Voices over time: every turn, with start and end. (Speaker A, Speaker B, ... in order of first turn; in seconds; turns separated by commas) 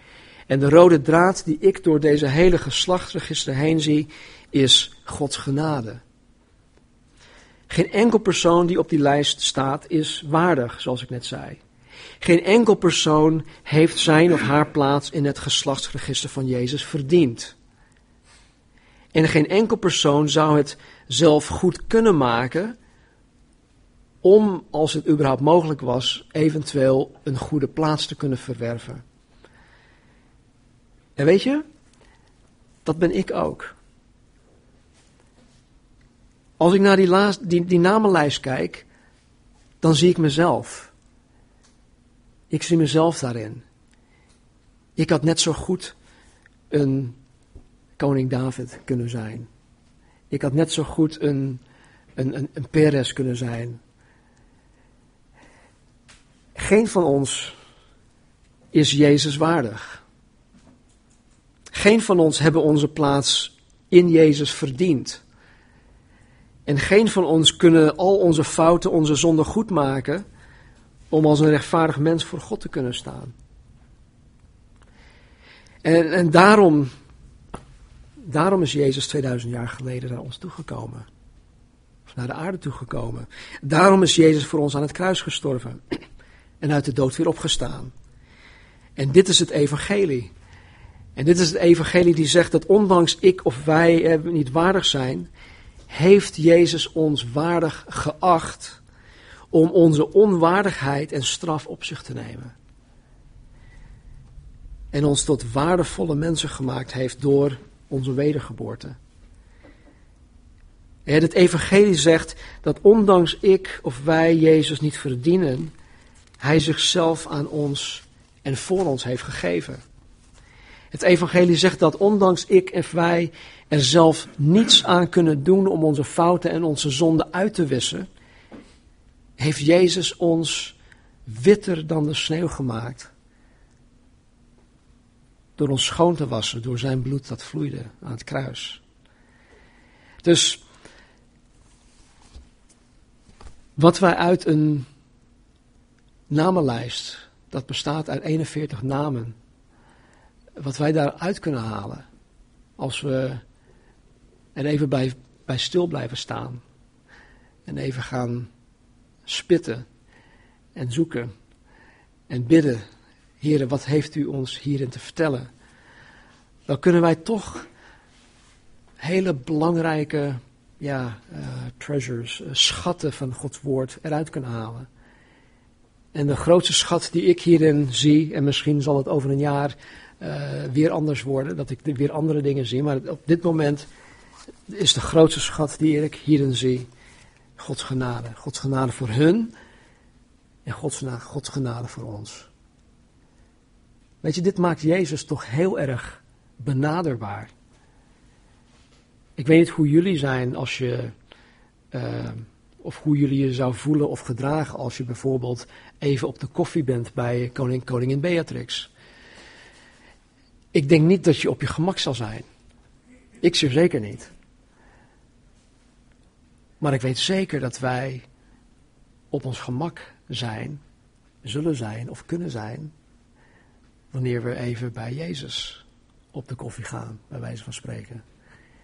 Speaker A: 0.5-6.0, Speaker A: 7.7-11.6, Speaker A: 12.2-17.6, Speaker A: 19.1-22.8, Speaker A: 24.2-29.0, Speaker A: 31.2-31.6, Speaker A: 32.9-33.8, Speaker A: 36.6-38.9, Speaker A: 39.8-40.9, Speaker A: 42.5-43.6, Speaker A: 45.0-46.0, Speaker A: 46.7-47.2, Speaker A: 48.0-49.5, Speaker A: 50.3-51.6, Speaker A: 52.2-53.8, Speaker A: 56.5-57.5, Speaker A: 58.7-60.0, Speaker A: 61.7-65.2, Speaker A: 66.7-70.2, Speaker A: 71.1-73.3, Speaker A: 75.8-76.9, Speaker A: 78.2-81.1, Speaker A: 82.1-86.0, Speaker A: 86.6-87.9, Speaker A: 89.0-90.3, Speaker A: 91.2-95.3, Speaker A: 95.9-98.8, Speaker A: 99.5-102.5, Speaker A: 104.9-109.0, Speaker A: 111.1-115.7, Speaker A: 116.4-119.8, Speaker A: 120.9-128.1, Speaker A: 129.4-133.1, Speaker A: 135.6-138.8, Speaker A: 140.2-140.6, Speaker A: 143.8-144.9, Speaker A: 146.3-149.4, Speaker A: 150.6-152.1, Speaker A: 152.8-153.4, Speaker A: 154.6-156.6, Speaker A: 157.7-158.5, Speaker A: 159.2-159.9, Speaker A: 160.8-161.3, Speaker A: 162.3-162.8, Speaker A: 163.4-165.5, Speaker A: 166.7-167.7, Speaker A: 169.0-174.9, Speaker A: 176.1-183.9, Speaker A: 184.7-186.9, Speaker A: 187.6-189.5, Speaker A: 190.7-192.5, Speaker A: 194.2-197.5, Speaker A: 199.4-201.1, Speaker A: 201.9-208.9, Speaker A: 210.7-212.5, Speaker A: 213.4-214.3, Speaker A: 216.8-218.3, Speaker A: 219.3-220.8, Speaker A: 221.4-222.9, Speaker A: 224.1-228.2